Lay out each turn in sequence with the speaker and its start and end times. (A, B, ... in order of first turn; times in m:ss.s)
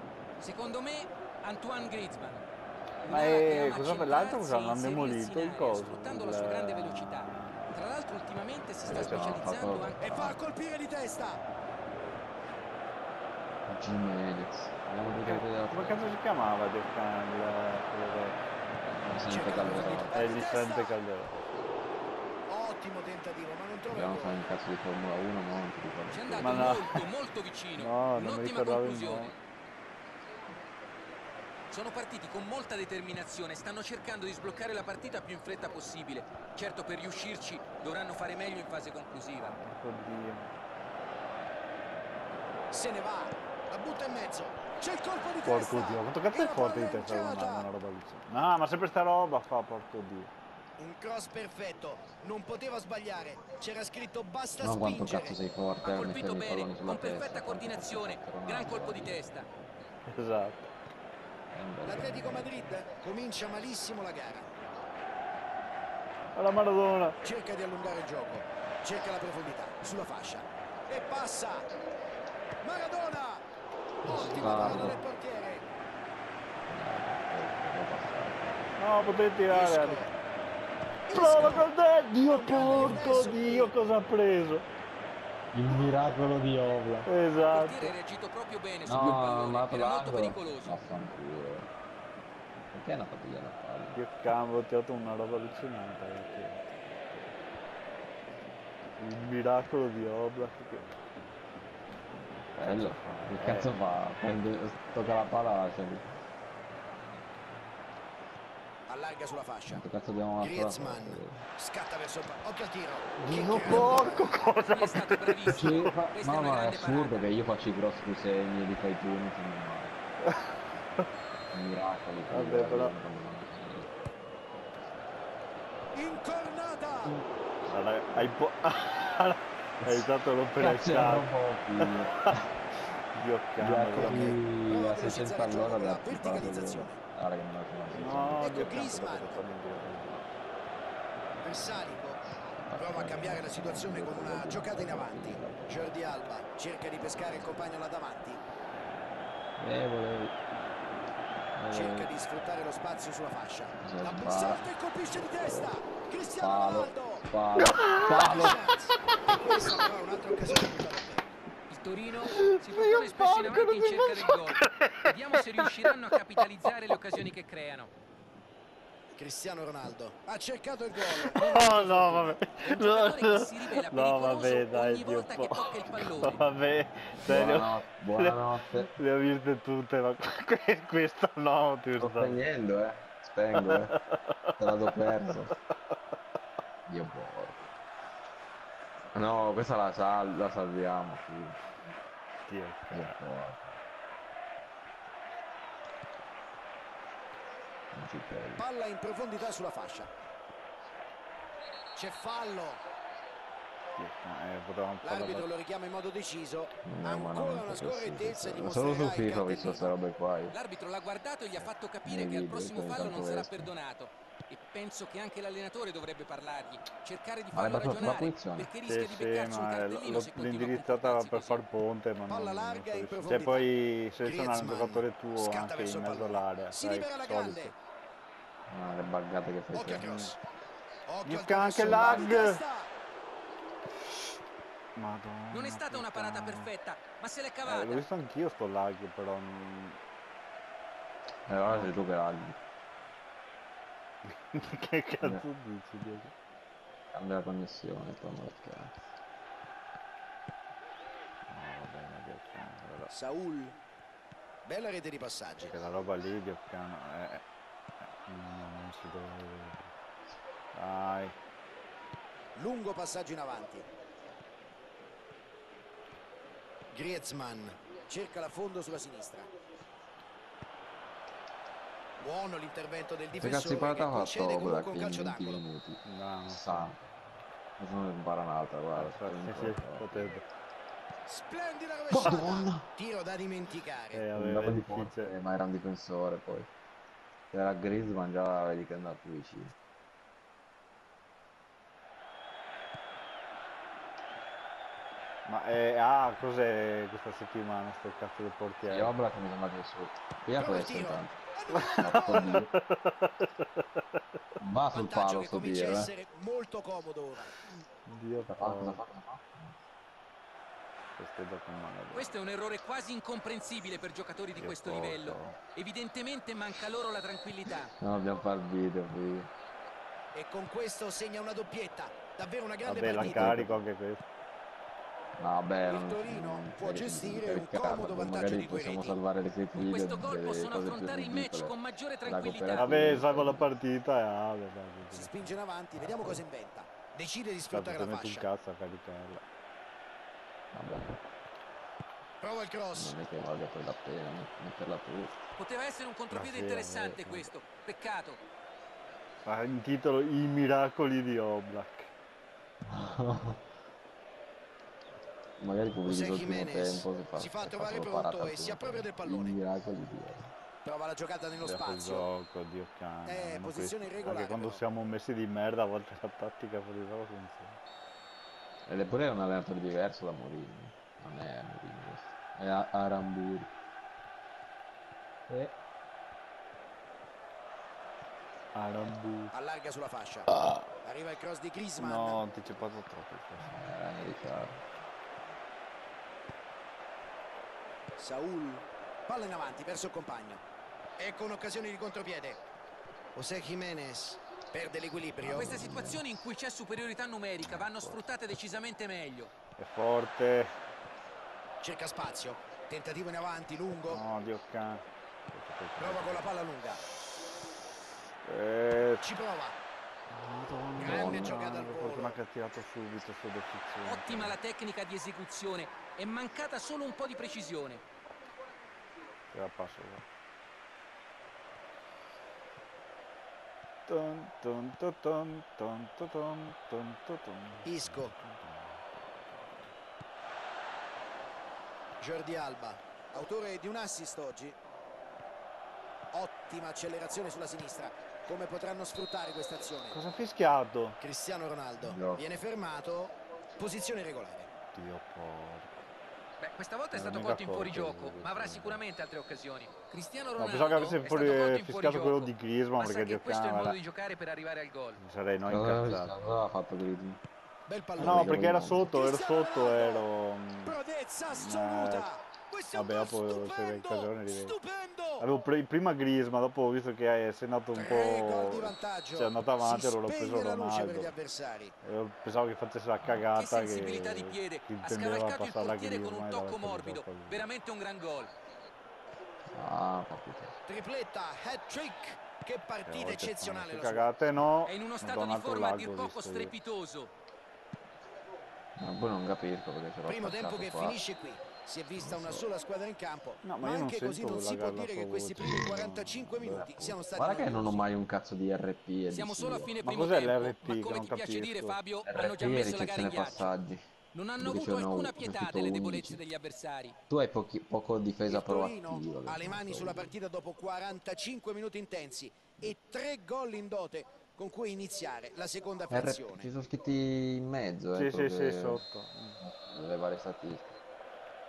0:00.4-0:02.4 A
0:03.0-0:10.3 A
0:03.1-0:07.7 B
0:08.8-0:10.3 C
0:10.0-0:11.4 D
0:13.7-0:16.0 C
0:15.0-0:18.4 B
0:19.0-0:20.3 C
0:19.3-0:20.9 D
0:20.0-0:21.7 B
0:22.5-0:24.4 D
0:23.9-0:27.0 C
0:26.1-0:29.4 A
0:26.4-0:27.0 B
0:27.8-0:29.3 B
0:31.7-0:39.6 A
0:39.3-0:40.5 B
0:42.7-0:47.7 D
0:45.4-0:50.3 B
0:50.8-0:55.4 D
0:54.6-0:59.2 C
0:55.8-0:59.5 A
1:00.1-1:00.7 B
1:01.5-1:02.5 C
1:01.8-1:04.5 D
1:06.3-1:07.2 B
1:07.2-1:11.7 D
1:12.6-1:13.4 D
1:14.0-1:15.6 D
1:14.0-1:15.0 C
1:14.4-1:15.0 B
1:16.7-1:18.7 C
1:18.8-1:20.1 B
1:19.5-1:20.1 D
1:21.1-1:21.7 D
1:21.1-1:24.7 B
1:22.2-1:23.7 D
1:22.6-1:23.2 C
1:25.5-1:27.1 C
1:27.0-1:27.9 B
1:27.5-1:30.7 A
1:28.8-1:31.7 C
1:32.7-1:34.0 C
1:33.9-1:36.6 B
1:39.0-1:40.9 B
1:42.5-1:46.2 C
1:42.6-1:43.7 B
1:48.9-1:49.8 D
1:49.7-1:51.4 C
1:50.4-1:54.4 D
1:53.2-1:56.0 B
1:53.6-1:54.0 C
1:54.7-1:57.3 A
1:55.4-1:59.9 C
2:01.5-2:03.9 C
2:02.3-2:02.9 B
2:05.9-2:07.2 D
2:07.7-2:12.4 B
2:09.8-2:12.4 C
2:13.1-2:14.4 B
2:13.6-2:18.7 C
2:14.0-2:17.0 D
2:17.9-2:20.2 B
2:18.4-2:19.4 D
2:21.4-2:22.2 D
2:22.6-2:26.0 C
2:22.8-2:28.4 D
2:29.6-2:30.4 C
2:31.5-2:32.1 C
2:31.7-2:37.3 D
2:33.8-2:34.7 C
2:35.4-2:35.8 C
2:36.4-2:38.6 C
2:37.6-2:38.4 B
2:38.1-2:41.3 D
2:41.7-2:47.9 A
2:42.4-2:45.9 B
2:49.1-2:52.4 D
2:51.1-3:02.4 B
2:51.6-2:56.4 A
2:57.2-2:58.9 C
3:02.0-3:04.0 C
3:03.5-3:04.5 B
3:04.6-3:05.5 C
3:06.9-3:07.7 C
3:09.1-3:11.6 C
3:12.5-3:13.2 B
3:12.9-3:13.7 C
3:17.9-3:18.6 C
3:18.6-3:20.1 D
3:21.9-3:22.8 D
3:24.0-3:25.5 B
3:25.0-3:29.9 D
3:26.8-3:30.6 C
3:30.5-3:41.6 A
3:32.0-3:33.7 C
3:37.5-3:38.7 C
3:38.8-3:47.7 B
3:42.3-3:47.7 D
3:48.7-3:50.1 C
3:49.7-3:50.4 D
3:49.9-3:50.3 B
3:51.1-3:52.9 D
3:51.2-3:52.6 B
3:51.8-3:52.4 C
3:55.0-3:56.7 B
3:55.5-3:58.0 A
3:57.6-4:00.0 B
4:01.5-4:02.6 C
4:04.5-4:06.3 B
4:07.1-4:08.9 C
4:11.5-4:13.1 B
4:13.1-4:13.8 D
4:14.6-4:15.7 D
4:15.6-4:17.4 B
4:18.2-4:19.9 B
4:20.7-4:21.4 B
4:22.5-4:23.9 D
4:26.9-4:29.5 D
4:32.2-4:35.6 D
4:33.4-4:37.0 C
4:36.0-4:37.0 B
4:37.8-4:40.4 C
4:38.9-4:40.4 B
4:41.3-4:44.2 D
4:42.1-4:42.9 C
4:44.1-4:45.3 B
4:44.3-4:46.7 C
4:47.5-4:49.7 C
4:55.4-4:59.2 B
4:58.9-5:01.4 C
5:00.5-5:02.6 D
5:01.7-5:03.6 B
5:02.0-5:02.7 C
5:04.6-5:06.1 C
5:04.9-5:07.5 D
5:08.0-5:09.0 B
5:08.5-5:09.7 C
5:11.2-5:12.3 B
5:12.1-5:17.9 A
5:14.5-5:15.6 B
5:17.9-5:19.5 C
5:20.3-5:23.5 D
5:22.8-5:24.2 B
5:23.0-5:23.8 C
5:25.4-5:33.7 C
5:25.8-5:29.2 D
5:29.8-5:32.9 A
5:32.7-5:35.5 B
5:35.1-5:38.5 D
5:37.7-5:39.4 B
5:40.7-5:41.2 C
5:42.4-5:43.2 D
5:42.9-5:45.4 C
5:45.6-5:48.4 A
5:46.3-5:47.5 B
5:49.4-5:52.1 B
5:52.9-5:53.6 C
5:55.6-6:00.5 C
5:56.0-5:59.6 D
6:00.8-6:02.3 D
6:01.7-6:07.8 B
6:03.2-6:04.8 D
6:08.8-6:13.7 C
6:15.5-6:15.7 C
6:18.7-6:19.5 B
6:19.5-6:20.5 D
6:21.0-6:22.4 D
6:22.0-6:23.7 B
6:23.7-6:24.8 C
6:28.2-6:30.6 D
6:31.2-6:32.6 D
6:33.3-6:35.9 D
6:35.4-6:36.4 C
6:35.5-6:39.5 A
6:37.6-6:38.2 B
6:39.8-6:40.7 B
6:41.8-6:44.2 D
6:44.1-6:46.5 B
6:46.0-6:47.0 D
6:48.4-6:49.2 B
6:49.2-6:49.8 D
6:50.3-6:54.6 B
6:51.0-6:51.6 C
6:51.0-6:52.4 D
6:54.0-6:58.0 A
6:59.5-7:00.2 B
7:04.1-7:09.9 B
7:07.8-7:08.3 D
7:12.2-7:14.8 D
7:16.3-7:20.2 D
7:20.1-7:21.2 B
7:21.2-7:24.7 D
7:22.0-7:22.4 C
7:24.9-7:25.9 B
7:26.6-7:35.2 A
7:27.1-7:29.0 B
7:30.6-7:34.0 B
7:35.2-7:36.4 B
7:35.6-7:37.4 C
7:37.9-7:40.2 D
7:38.2-7:39.1 C
7:38.2-7:42.3 B
7:40.8-7:45.5 D
7:42.9-7:44.7 B
7:45.4-7:51.3 B
7:47.9-7:51.9 D
7:52.0-7:57.7 B
7:53.2-7:53.4 C
7:53.5-7:58.5 A
7:59.7-8:00.7 C
8:00.8-8:04.3 D
8:03.1-8:06.8 B
8:04.8-8:07.3 A
8:09.0-8:11.2 C
8:10.2-8:18.1 D
8:12.2-8:12.7 C
8:13.6-8:17.2 B
8:17.3-8:19.9 C
8:19.3-8:23.8 A
8:20.0-8:22.0 B
8:22.2-8:24.0 C
8:24.3-8:27.2 A
8:24.6-8:26.4 C
8:27.3-8:30.3 C
8:28.5-8:36.7 D
8:36.1-8:39.0 C
8:38.2-8:39.6 B
8:39.6-8:41.0 C